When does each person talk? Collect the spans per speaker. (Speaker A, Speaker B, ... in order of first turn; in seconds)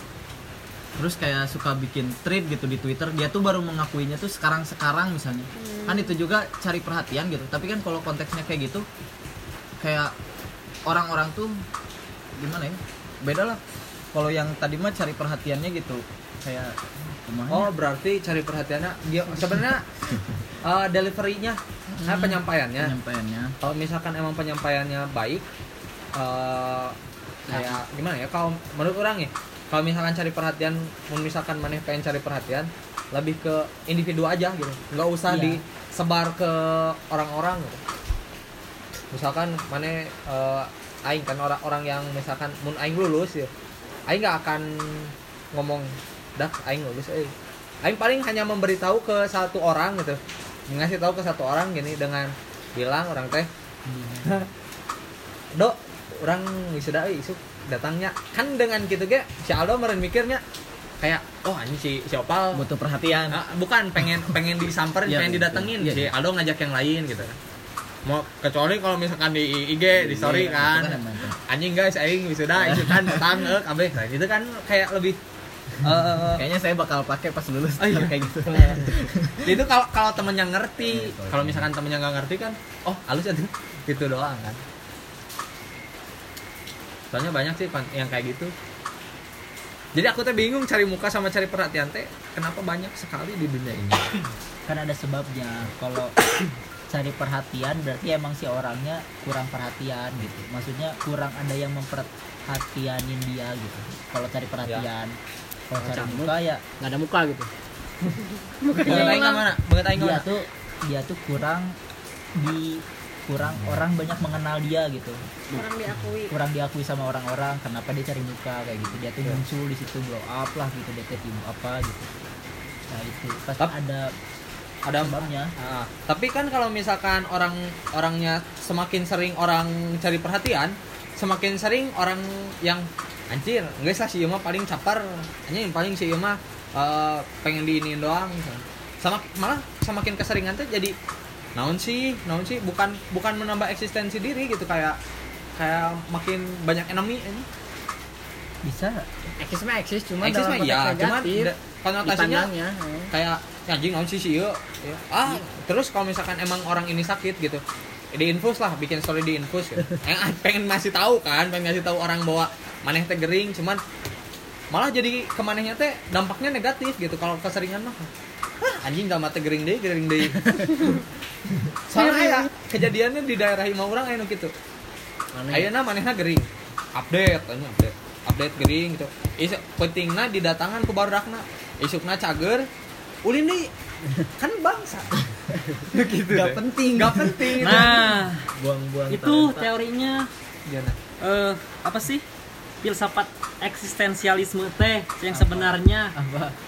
Speaker A: 0.9-8.8, 9.8-10.1, 10.8-11.6, 12.4-13.6, 14.1-17.7, 22.8-23.5, 62.5-63.4, 65.0-66.1, 69.9-71.4, 72.6-73.0, 76.2-79.4, 80.8-81.7, 186.3-188.1, 188.6-189.5
Speaker B: 5.6-6.1, 108.6-109.5, 115.5-116.3, 172.2-172.5
Speaker C: 17.5-19.8, 20.6-22.9, 23.6-25.4, 26.1-26.9, 27.5-37.8, 39.1-43.5, 44.1-53.5, 55.5-60.4, 61.0-62.6, 63.3-67.4, 68.0-75.2, 75.8-76.4, 77.8-78.8, 79.4-84.6, 87.1-88.5, 89.9-94.0, 108.7-110.2, 124.8-140.9, 141.6-145.0, 145.6-147.4, 150.2-152.5, 153.1-157.6, 158.1-163.8, 164.7-168.1, 168.7-170.9, 171.9-174.5, 175.5-182.7, 183.2-183.7, 184.4-188.1, 190.7-191.0
Speaker D: 35.3-35.6, 94.7-96.1, 96.9-105.2, 105.7-106.6, 108.9-109.2, 110.0-111.8, 112.3-115.2, 116.3-122.1, 122.9-124.1, 125.0-125.5, 148.6-149.1, 188.6-189.7, 195.3-196.5
Speaker E: 105.7-107.5, 149.4-151.5, 152.0-153.1, 175.3-175.7
Speaker F: 187.6-188.5, 189.1-190.3, 191.2-192.2, 192.8-196.1